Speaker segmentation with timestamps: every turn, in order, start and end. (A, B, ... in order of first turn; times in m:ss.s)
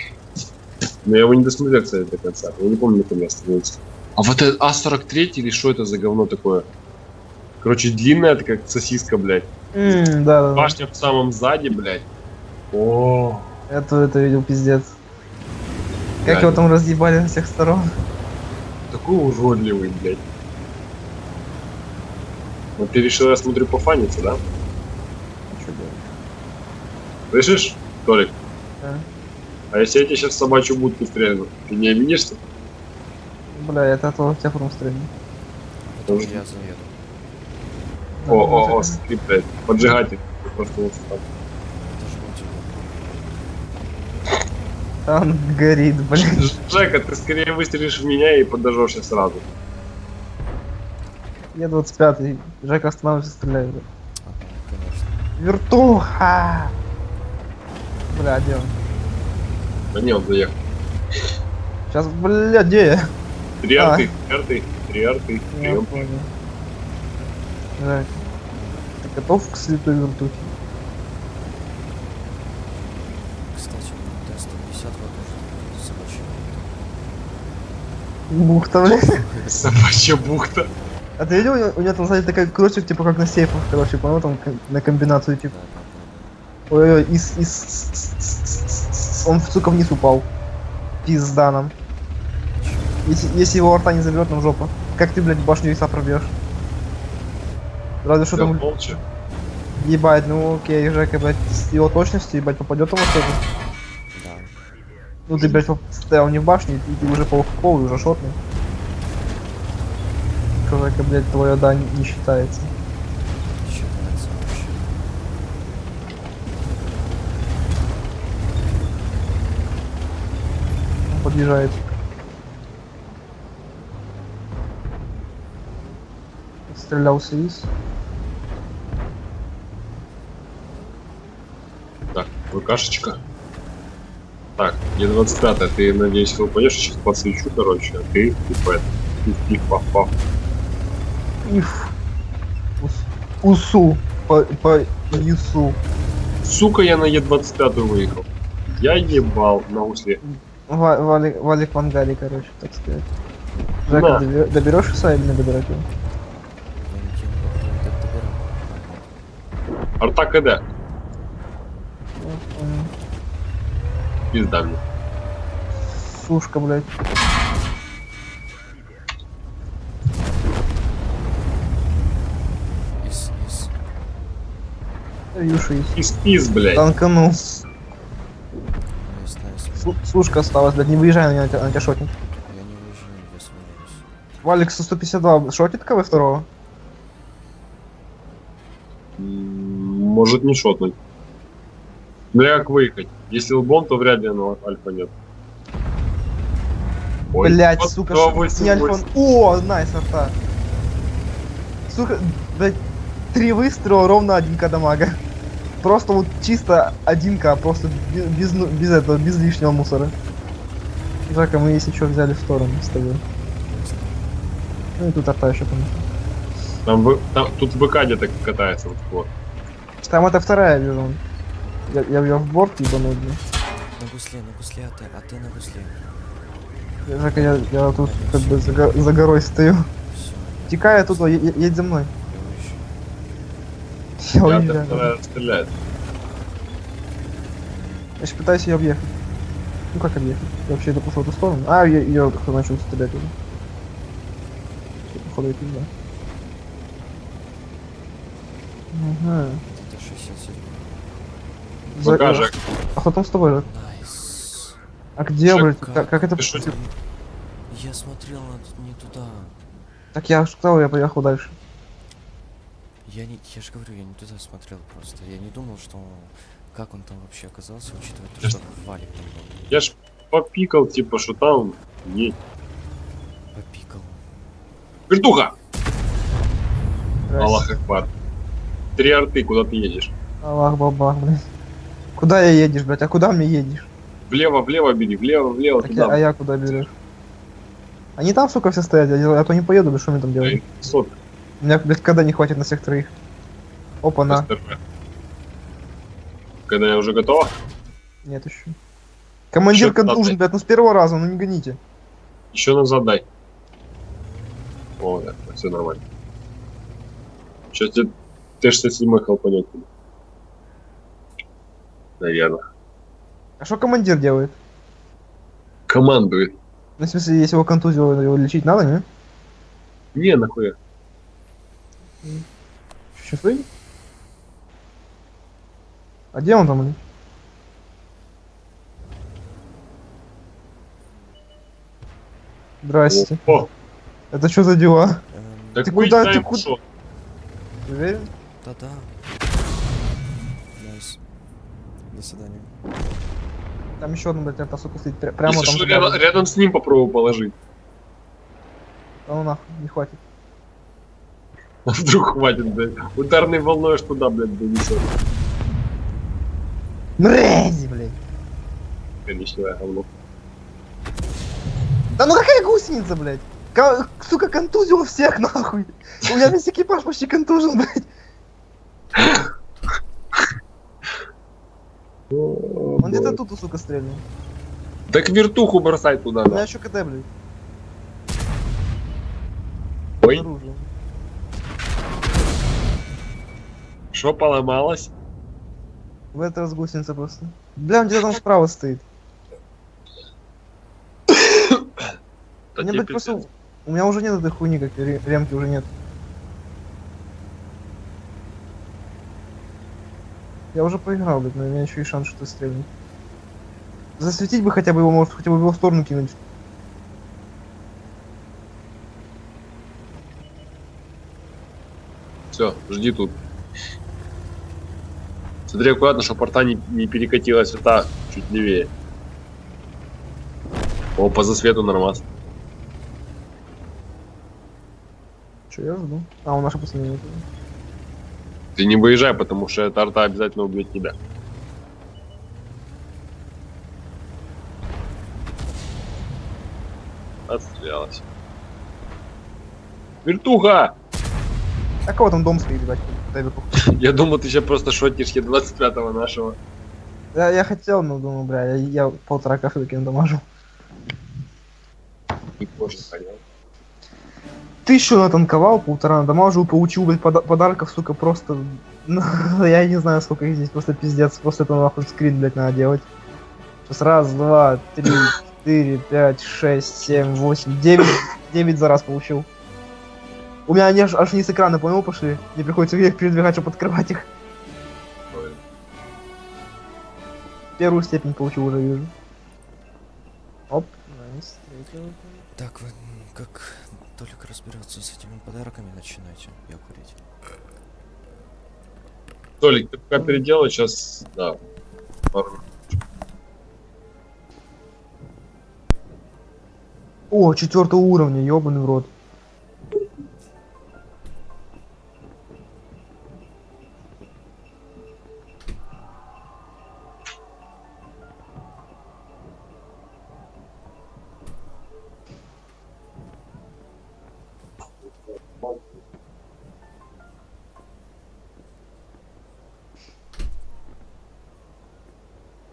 0:01.0-0:06.7 A
0:07.6-0:10.0 A
0:09.7-0:10.7 B
0:10.6-0:12.0 A
0:12.7-0:13.5 A
0:13.7-0:15.0 B
0:16.2-0:16.6 A
0:16.2-0:17.9 B
0:18.9-0:20.2 A
0:22.8-0:24.4 A
0:25.5-0:26.0 B
0:27.3-0:28.3 A
0:29.7-0:32.4 A
0:33.5-0:35.1 B
0:35.9-0:37.0 C
0:36.1-0:36.4 A
0:38.2-0:39.0 B
0:38.3-0:41.2 A
0:41.8-0:43.1 C
0:45.0-0:46.4 B
0:46.2-0:49.4 A
0:51.5-0:53.8 B
0:54.2-0:55.2 C
0:55.4-0:56.7 B
0:58.1-0:58.7 B
0:59.9-1:00.6 A
1:01.9-1:03.1 B
1:03.6-1:06.0 A
1:03.8-1:04.1 B
1:05.5-1:06.3 B
1:07.8-1:08.1 B
1:09.0-1:10.5 B
1:13.3-1:16.8 C
1:18.3-1:19.2 B
1:19.0-1:19.7 C
1:19.5-1:20.7 A
1:21.2-1:25.5 B
1:25.4-1:26.3 C
1:26.7-1:30.3 B
1:31.0-1:31.7 B
1:32.6-1:33.1 C
1:33.0-1:36.3 B
1:38.0-1:38.6 B
1:38.3-1:39.0 A
1:39.8-1:43.4 B
1:44.1-1:44.6 C
1:45.3-1:48.4 B
1:50.6-1:52.7 B
1:53.6-1:55.0 C
2:01.1-2:01.8 B
2:06.7-2:07.7 B
2:12.1-2:13.2 A
2:14.6-2:20.1 A
2:21.4-2:21.9 B
2:22.8-2:25.8 B
2:26.4-2:30.2 A
2:30.3-2:33.1 B
2:33.9-2:35.9 B
2:33.9-2:34.2 A
2:36.8-2:39.1 C
2:40.0-2:40.6 A
2:42.2-2:42.9 B
2:44.3-2:44.8 A
2:46.2-2:46.9 B
2:53.0-2:53.7 C
2:55.3-2:55.9 B
2:56.0-2:56.8 A
2:56.7-2:57.6 B
2:59.0-3:00.0 C
2:59.8-3:02.1 B
3:02.4-3:04.0 C
3:04.4-3:06.5 B
3:09.2-3:10.9 A
3:12.3-3:15.1 A
3:17.3-3:19.0 A
3:17.4-3:20.3 B
3:21.9-3:22.8 B
3:23.3-3:25.2 B
3:25.8-3:30.1 B
3:31.3-3:33.2 B
3:33.7-3:34.2 C
3:35.0-3:36.0 B
3:36.8-3:39.3 A
3:40.0-3:41.2 B
3:41.9-3:43.4 B
3:43.9-3:46.1 C
3:47.1-3:49.9 B
3:47.3-3:49.0 C
3:50.1-3:51.5 C
3:50.7-3:52.1 B
3:52.2-3:52.9 C
3:54.2-3:55.1 B
3:54.4-3:55.7 A
3:58.2-3:59.1 B
3:59.9-4:03.3 B
4:05.1-4:05.9 B
4:08.9-4:09.6 B
4:09.7-4:11.0 C
4:11.9-4:13.6 B
4:12.0-4:12.5 A
4:13.6-4:14.8 C
4:15.2-4:16.7 B
4:15.7-4:17.0 C
4:16.4-4:16.6 A
4:17.7-4:19.6 C
4:20.1-4:21.6 B
4:23.0-4:29.8 C
4:29.7-4:32.4 A
4:33.5-4:34.2 C
4:35.1-4:35.5 A
4:37.3-4:37.8 B
4:37.4-4:38.1 A
4:39.0-4:40.1 A
4:40.4-4:41.4 B
4:42.2-4:43.9 B
4:44.3-4:46.2 A
4:45.8-4:46.9 B
4:48.2-4:50.6 B
4:50.4-4:51.1 A
4:51.6-4:53.1 B
4:54.0-4:54.5 B
4:54.3-4:54.8 A
4:56.7-4:57.5 A
4:58.2-4:58.7 B
4:59.5-5:01.8 B
4:59.7-5:00.4 A
5:02.5-5:03.2 A
5:05.0-5:06.0 A
5:07.7-5:09.9 A
5:12.2-5:12.6 A
5:13.6-5:14.6 B
5:15.9-5:16.6 A
5:17.0-5:19.0 B
5:20.1-5:20.7 A
5:23.2-5:23.6 B
5:26.3-5:27.0 B
5:32.8-5:33.4 B
5:33.1-5:33.7 A
5:34.3-5:35.2 B
5:35.3-5:35.9 C
5:35.7-5:36.8 A
5:35.8-5:36.6 B
5:37.8-5:38.3 B
5:38.6-5:39.2 C
5:40.8-5:41.2 C
5:42.1-5:42.7 C
5:44.0-5:46.2 B
5:45.4-5:47.5 A
5:49.3-5:50.2 B
5:51.8-5:55.1 A
5:57.2-5:58.2 B
5:59.2-6:00.0 A
6:02.2-6:08.1 B
6:09.2-6:09.5 A
6:12.3-6:13.4 A
6:13.0-6:14.2 B
6:15.1-6:16.6 A
6:16.5-6:17.3 B
6:20.2-6:20.9 B
6:24.1-6:25.1 A
6:26.3-6:29.0 B
6:31.3-6:31.8 A
6:32.8-6:33.4 A
6:32.8-6:35.9 B
6:40.7-6:42.9 B
6:44.2-6:46.4 B
6:52.5-6:53.4 A
6:55.7-6:58.9 A
7:01.2-7:02.2 A
7:05.7-7:07.4 B
7:08.8-7:11.1 A
7:17.5-7:18.2 A
7:20.2-7:20.9 A
7:22.0-7:23.8 B
7:23.7-7:26.6 A
7:27.3-7:30.4 B
7:32.6-7:33.4 A
7:34.8-7:43.0 B
7:43.9-7:49.5 B
7:50.7-7:54.3 B
7:55.3-7:55.6 A
7:57.8-7:59.1 B
8:00.7-8:02.4 B
8:02.5-8:07.2 C
8:09.6-8:11.6 A
8:12.3-8:12.6 A
8:17.3-8:19.1 B